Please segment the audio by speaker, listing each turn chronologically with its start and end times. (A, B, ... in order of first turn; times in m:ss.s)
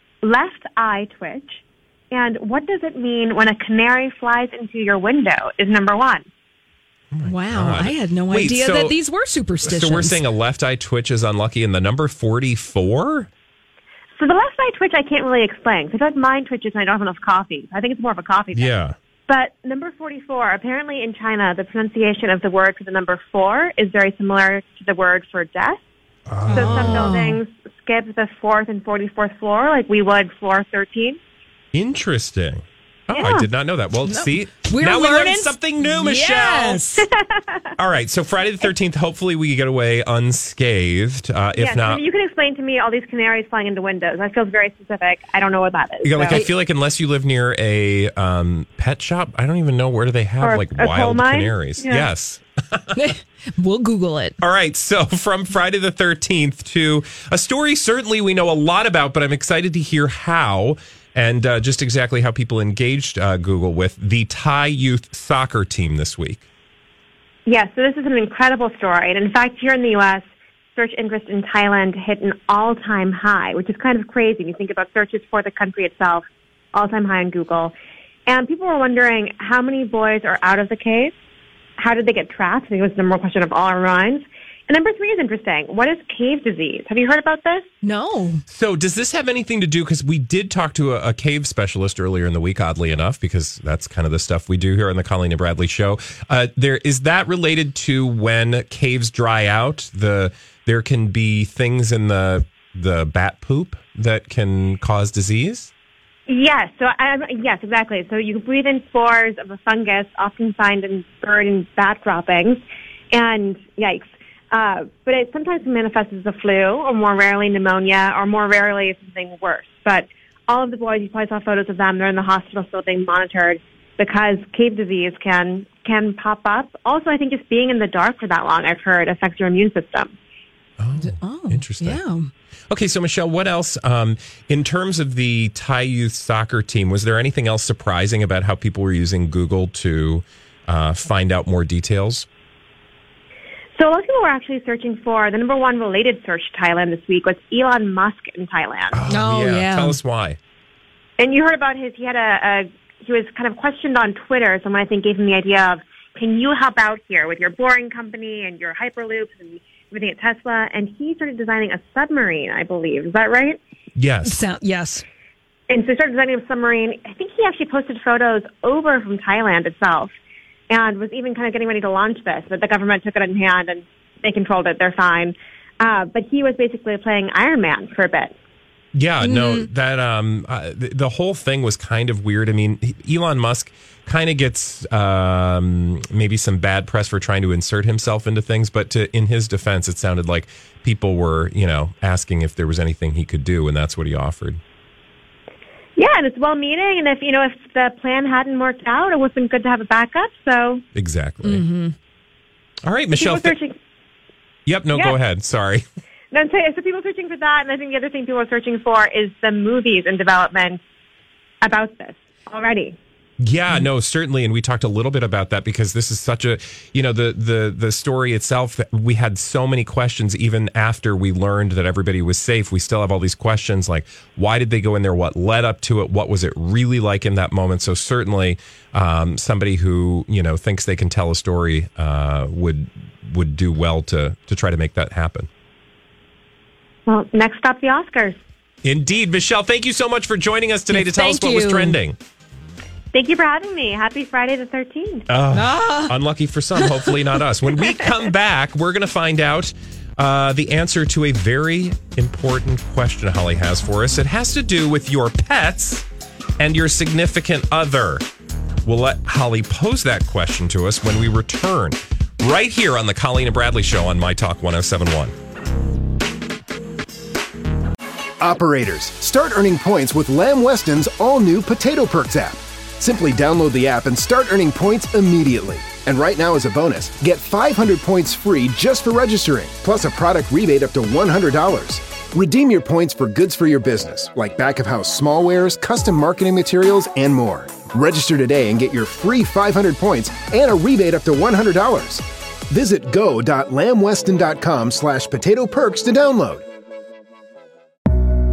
0:00.2-0:06.2 A
0:07.1-0:09.0 B
0:07.2-0:10.2 C
0:09.6-0:13.3 B
0:14.2-0:18.7 A
0:18.5-0:19.0 B
0:19.3-0:25.8 A
0:26.3-0:27.2 B
0:26.5-0:31.2 A
0:26.5-0:27.4 C
0:31.7-0:36.9 B
0:33.1-0:33.5 A
0:34.0-0:37.1 C
0:37.0-0:37.7 A
0:37.8-0:42.0 B
0:41.6-0:46.4 A
0:46.0-0:52.9 B
0:50.4-0:52.1 A
0:52.9-0:54.4 C
0:54.4-1:06.4 B
1:07.5-1:10.2 A
1:10.8-1:17.7 A
1:18.3-1:21.1 A
1:21.8-1:27.6 A
1:27.8-1:28.4 C
1:28.5-1:45.7 B
1:46.3-2:10.1 A
2:10.8-2:12.0 B
2:11.0-2:12.3 C
2:12.7-2:22.3 B
2:23.8-2:29.0 A
2:28.9-2:30.4 B
2:29.1-2:30.0 C
2:31.2-2:43.6 A
2:43.9-2:44.4 B
2:44.2-2:45.0 C
2:45.7-2:50.1 A
2:50.7-2:58.3 A
2:58.9-3:14.6 B
2:59.2-2:59.7 C
3:16.0-3:20.8 A
3:20.9-3:21.6 B
3:21.4-3:21.9 C
3:22.8-3:23.6 B
3:23.1-3:23.8 A
3:24.6-3:25.8 B
3:26.3-3:30.8 A
3:31.6-3:33.0 A
3:33.4-3:55.5 B
3:57.1-3:58.4 A
3:58.8-4:02.2 B
4:00.9-4:02.0 C
4:03.1-4:05.3 A
4:05.3-4:16.0 B
4:05.5-4:06.2 C
4:06.8-4:07.2 C
4:16.6-4:18.2 B
4:18.8-4:25.3 B
4:28.4-4:56.6 D